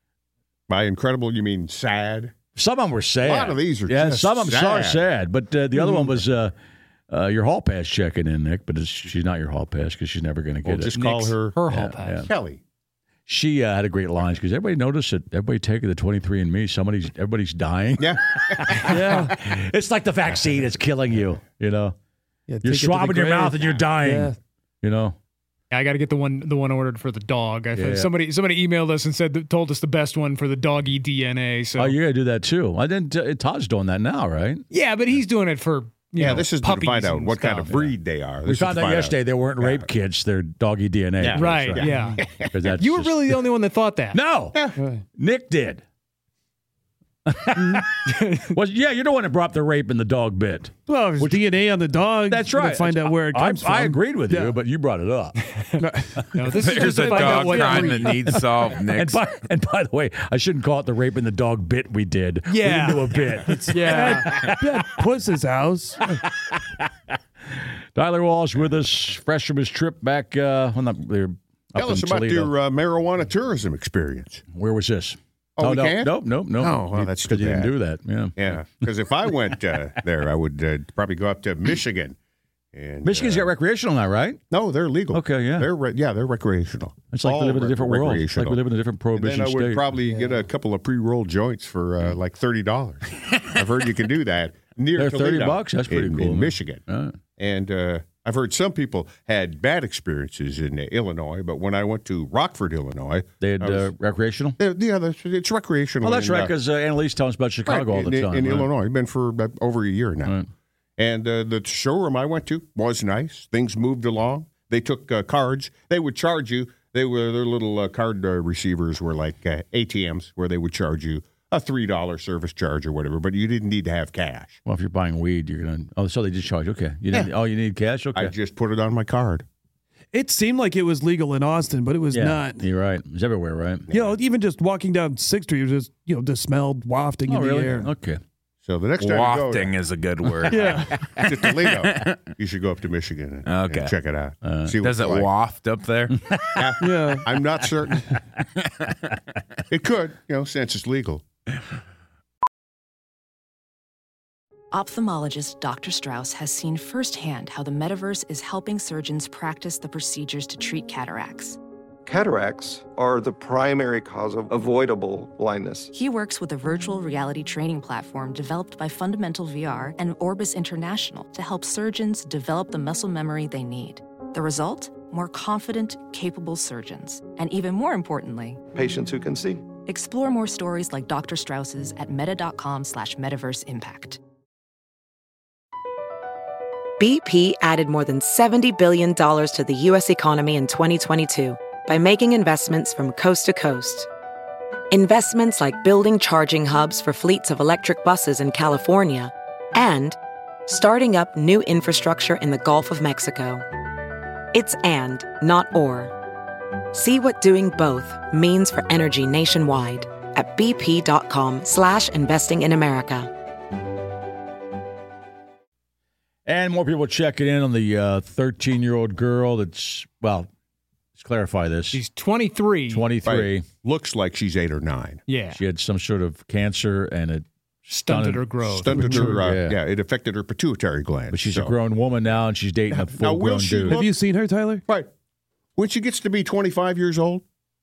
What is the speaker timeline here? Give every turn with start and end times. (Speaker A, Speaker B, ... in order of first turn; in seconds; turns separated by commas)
Speaker A: 0.7-2.3, Speaker B: 2.6-6.5, Speaker A: 3.2-5.1, Speaker B: 7.1-11.0, Speaker A: 10.7-11.6, Speaker C: 11.0-12.2, Speaker B: 11.7-12.3, Speaker A: 12.3-12.6, Speaker B: 13.3-22.0, Speaker A: 18.0-19.1, Speaker D: 18.9-19.3, Speaker D: 22.5-24.4, Speaker B: 22.6-25.2, Speaker C: 25.7-32.0, Speaker B: 27.8-28.1, Speaker B: 31.8-34.6, Speaker C: 34.7-37.9, Speaker A: 36.2-39.9, Speaker B: 38.5-42.0, Speaker A: 41.2-42.5, Speaker C: 41.3-42.2, Speaker B: 42.5-43.4, Speaker C: 42.8-44.2, Speaker B: 44.1-45.8, Speaker D: 44.8-45.0, Speaker B: 47.3-47.9, Speaker D: 47.6-47.8, Speaker C: 48.1-48.5, Speaker B: 48.5-51.4, Speaker D: 50.9-54.6, Speaker B: 52.3-55.4, Speaker D: 55.8-56.3, Speaker C: 56.3-58.3, Speaker E: 56.6-59.2, Speaker D: 56.9-57.7, Speaker B: 58.3-64.9, Speaker C: 62.5-64.3, Speaker D: 63.5-66.1, Speaker B: 66.2-66.9, Speaker B: 67.6-72.5, Speaker A: 71.8-74.4, Speaker B: 74.5-78.5, Speaker A: 75.6-77.7, Speaker A: 78.4-82.2, Speaker A: 82.7-83.5, Speaker B: 83.0-84.4, Speaker A: 84.5-88.6, Speaker B: 85.1-85.7, Speaker B: 87.1-89.9, Speaker A: 89.1-96.8, Speaker B: 95.0-97.2, Speaker A: 97.4-103.9, Speaker B: 103.4-104.6, Speaker A: 104.6-106.5, Speaker B: 106.0-108.7, Speaker A: 107.7-110.4, Speaker A: 111.0-124.6, Speaker B: 124.7-128.3, Speaker A: 128.1-129.4, Speaker D: 130.1-132.6, Speaker B: 132.1-133.9, Speaker A: 133.9-134.2, Speaker D: 133.9-137.9, Speaker B: 137.3-138.2, Speaker A: 138.6-139.8, Speaker E: 139.0-142.2, Speaker D: 140.5-141.0, Speaker A: 141.2-145.3, Speaker E: 143.5-143.9, Speaker B: 144.4-144.8, Speaker E: 144.8-146.2, Speaker B: 146.3-146.6, Speaker A: 146.6-148.1, Speaker D: 146.8-147.3, Speaker A: 149.7-151.2, Speaker F: 154.7-161.6, Speaker G: 162.1-165.9, Speaker F: 165.9-178.6, Speaker G: 178.7-179.6, Speaker F: 179.9-184.2, Speaker H: 187.0-194.1, Speaker H: 194.9-200.2, Speaker H: 200.7-203.7, Speaker H: 204.5-206.1, Speaker H: 206.9-213.3, Speaker B: 216.5-220.5, Speaker B: 221.2-222.0, Speaker C: 221.9-223.1, Speaker B: 222.9-223.7, Speaker A: 223.2-225.2, Speaker C: 225.3-225.6, Speaker B: 225.5-229.8, Speaker C: 227.9-229.4, Speaker A: 228.6-231.8, Speaker B: 231.3-234.0, Speaker A: 232.9-234.1, Speaker D: 233.9-234.8, Speaker A: 235.8-237.4